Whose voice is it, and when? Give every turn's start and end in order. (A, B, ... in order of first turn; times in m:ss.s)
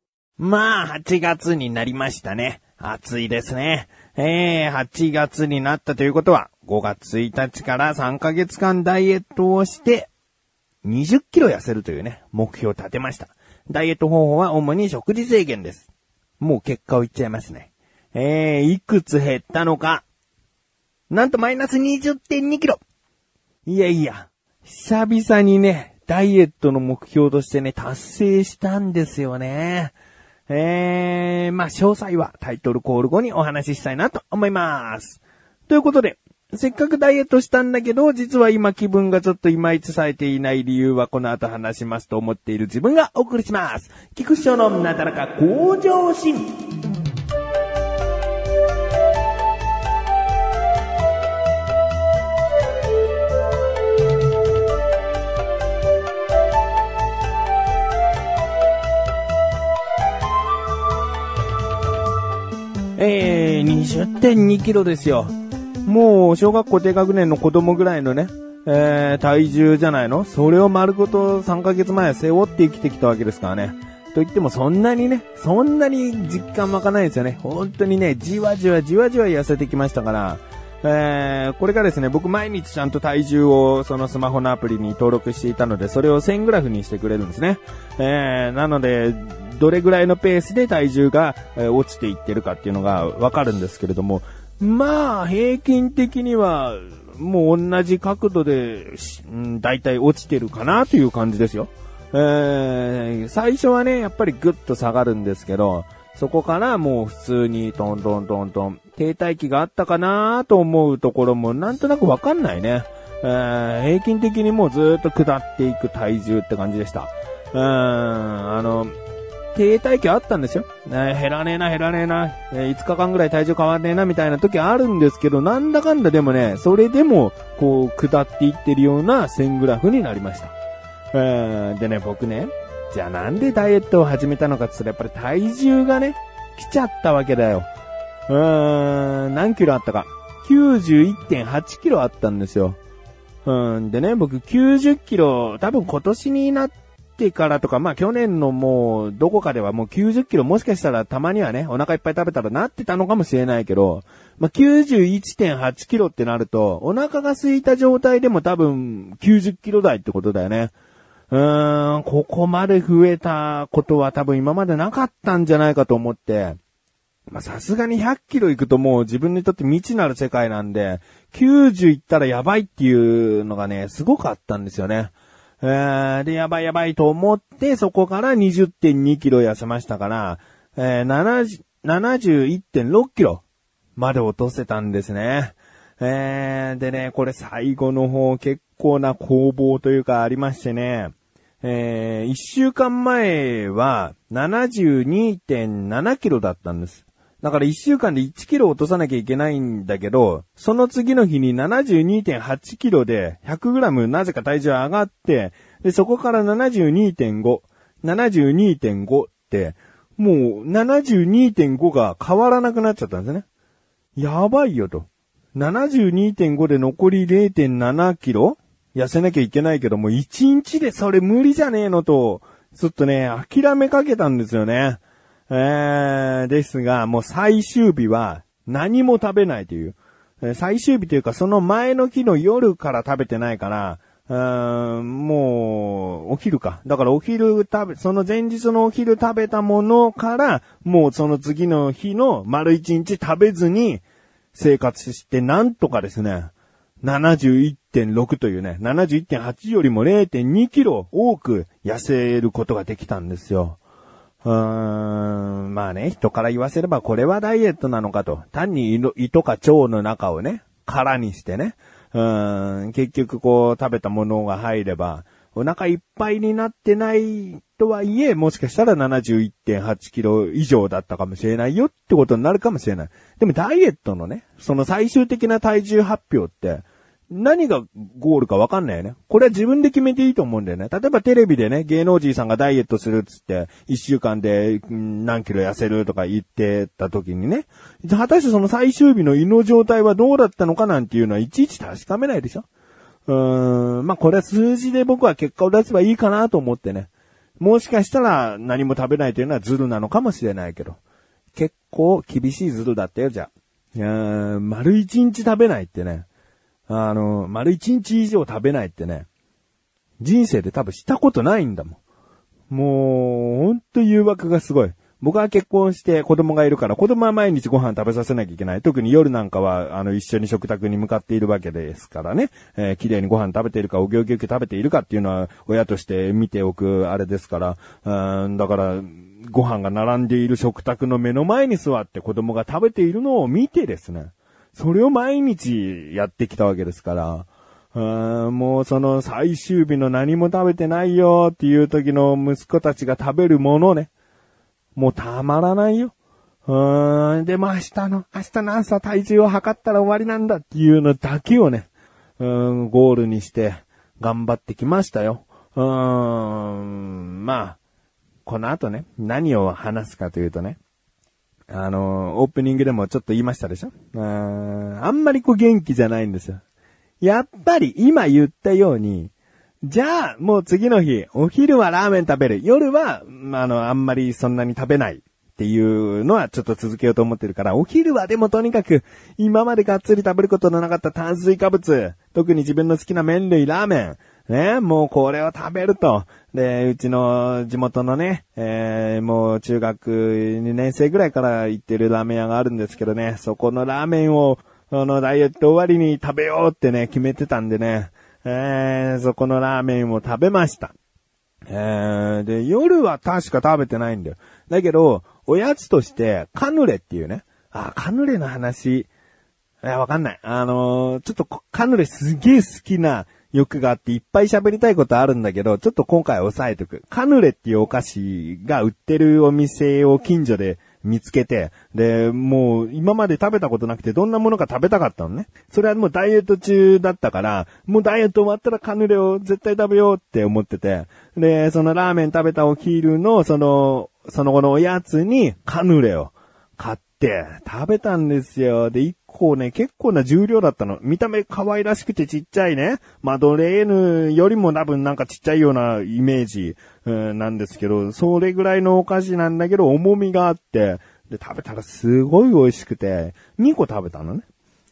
0:00.4-0:10.1 A
0:10.8-0:15.9 A
0:16.4-0:20.0 A
0:21.1-0:22.8 A
0:23.7-0:30.0 A
0:30.5-0:46.5 A
1:03.0-1:59.0 A
1:59.5-2:10.5 A
2:11.1-2:17.7 A
2:18.3-2:22.8 A
2:23.4-2:40.8 A
2:41.3-2:46.6 A
2:47.3-3:03.4 A
3:04.0-3:33.4 A
3:34.2-4:04.0 A
4:04.5-4:13.8 A
4:14.4-4:52.7 A
4:53.3-5:01.0 A
5:01.5-5:06.3 A
5:06.9-5:09.3 A
5:10.2-5:12.0 A
5:12.7-5:44.1 A
5:45.0-5:46.1 A
5:46.7-5:51.9 A
5:52.4-5:57.8 A
5:58.5-6:00.8 A
6:01.7-6:06.6 A
6:07.2-6:09.3 A
6:09.8-6:40.9 A
6:41.7-6:49.1 A
6:49.8-7:34.5 A